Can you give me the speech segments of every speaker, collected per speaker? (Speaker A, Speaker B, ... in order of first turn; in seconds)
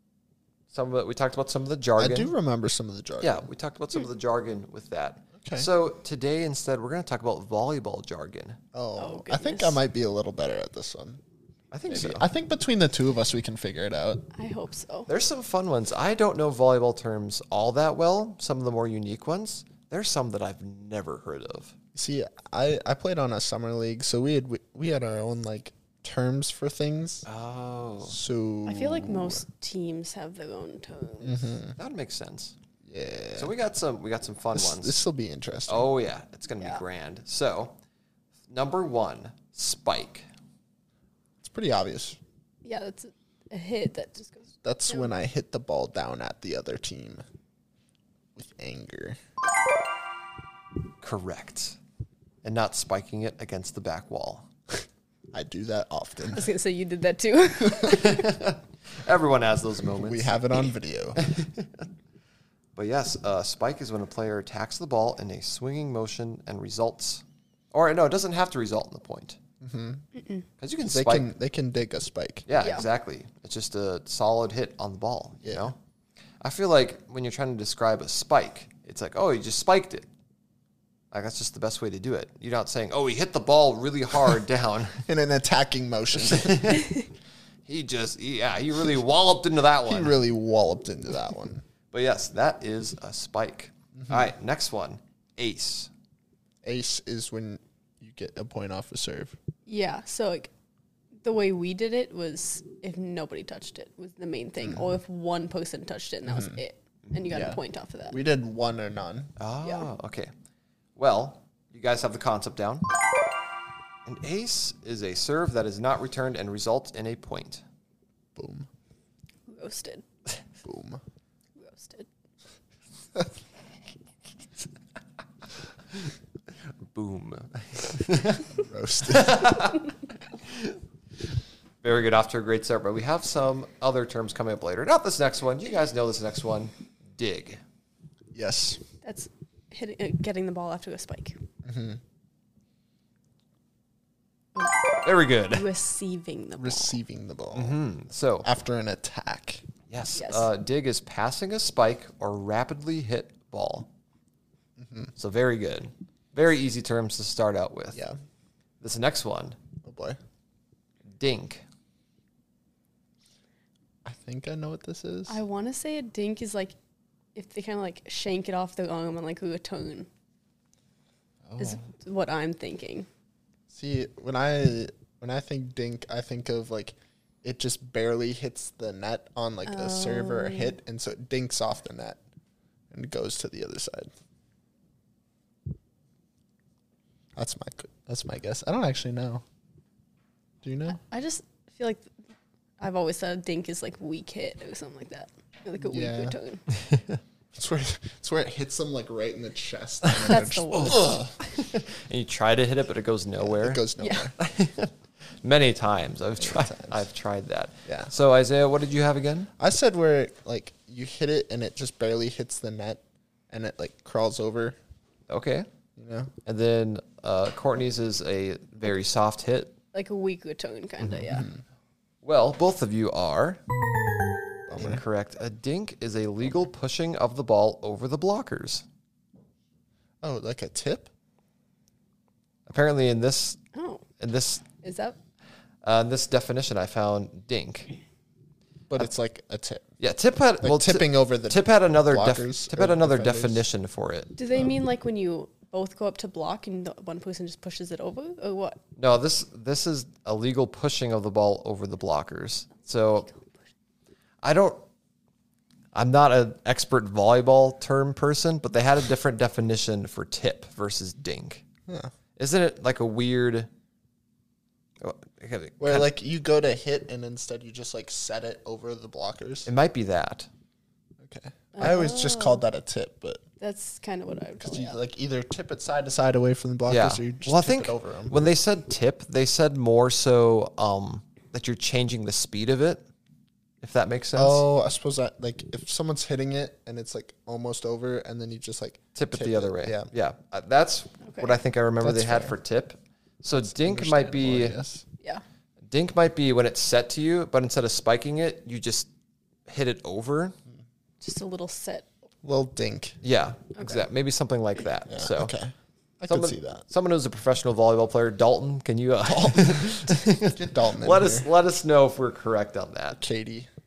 Speaker A: 0.7-2.3, 3.2-8.6, 11.7-12.2, 15.1-21.7, 27.2-28.1, 31.8-32.5, 33.4-35.0, 35.7-37.8, 38.5-40.3, 51.0-51.8, 52.4-54.5, 57.8-60.4, 61.1-61.9, 62.8-69.4, 70.6-71.3, 72.5-75.8, 76.4-80.1, 81.1-85.0, 86.2-87.1, 87.7-90.2, 91.9-95.9, 109.4-110.3, 111.0-112.8, 114.0-117.6, 126.9-128.5, 129.1-129.9, 130.4-130.8, 131.8-137.6, 145.0-145.7, 147.5-148.5, 149.9-153.9, 155.2-158.0, 158.8-159.6, 161.2-161.6, 196.8-197.2, 200.7-203.8, 204.4-209.5, 215.3-215.7, 216.4-219.7, 222.2-223.6, 224.8-228.8, 232.7-233.6, 234.2-234.6, 235.8-237.9, 240.0-244.3, 249.0-253.3, 254.4-254.8, 255.9-261.6, 262.4-263.7, 265.0-266.1, 269.6-270.5, 276.9-283.0, 283.8-284.6, 289.1-294.8, 295.9-299.1, 299.7-300.6, 303.2-305.5, 306.3-313.2
Speaker B: 2.0-3.5, 5.4-5.7, 8.7-11.2, 11.9-14.2, 21.9-27.2, 28.1-29.4, 31.2-31.8, 32.8-33.5, 34.5-35.9, 41.4-42.2, 44.6-47.2, 48.4-49.2, 55.3-56.5, 60.0-61.2, 69.6-70.0, 70.8-72.5, 75.4-75.7, 85.1-86.8, 89.8-91.6, 94.0-94.3, 96.6-99.4, 104.6-104.9, 106.3-106.6, 107.3-107.6, 108.1-109.3, 118.3-118.7, 120.6-121.0, 128.6-129.5, 138.3-138.8, 141.6-142.0, 146.6-147.8, 148.4-149.6, 154.8-155.1, 159.8-160.2, 164.0-165.4, 171.4-171.8, 173.7-182.2, 182.9-184.1, 187.3-189.4, 190.6-191.0, 195.8-196.3, 197.5-201.3, 203.4-204.3, 206.4-207.0, 207.8-208.1, 209.6-214.8, 215.9-216.3, 221.3-221.6, 224.7-225.0, 230.2-231.1, 238.9-239.8, 240.6-243.6, 265.8-269.7, 271.2-273.4, 274.6-278.4, 284.3-290.1, 292.0-292.5, 293.6-295.0, 302.4-303.2, 305.1-306.8, 309.3-311.5, 313.2-313.7
Speaker C: 9.0-9.8, 14.3-15.1, 28.6-31.5, 42.6-45.1, 56.3-58.3, 70.2-70.4, 72.6-72.8, 99.7-100.5, 101.2-108.2, 119.5-120.0, 121.6-122.1, 139.0-141.4, 144.6-147.0, 150.2-150.5, 165.3-166.7, 167.3-170.1, 171.6-173.1, 179.7-180.7, 191.0-192.1, 192.8-196.6, 200.2-201.2, 204.0-204.3, 219.9-221.4, 233.7-234.0, 234.8-235.2, 244.4-248.8, 253.2-253.5, 271.7-272.6, 273.6-275.0, 291.2-291.6, 301.2-302.1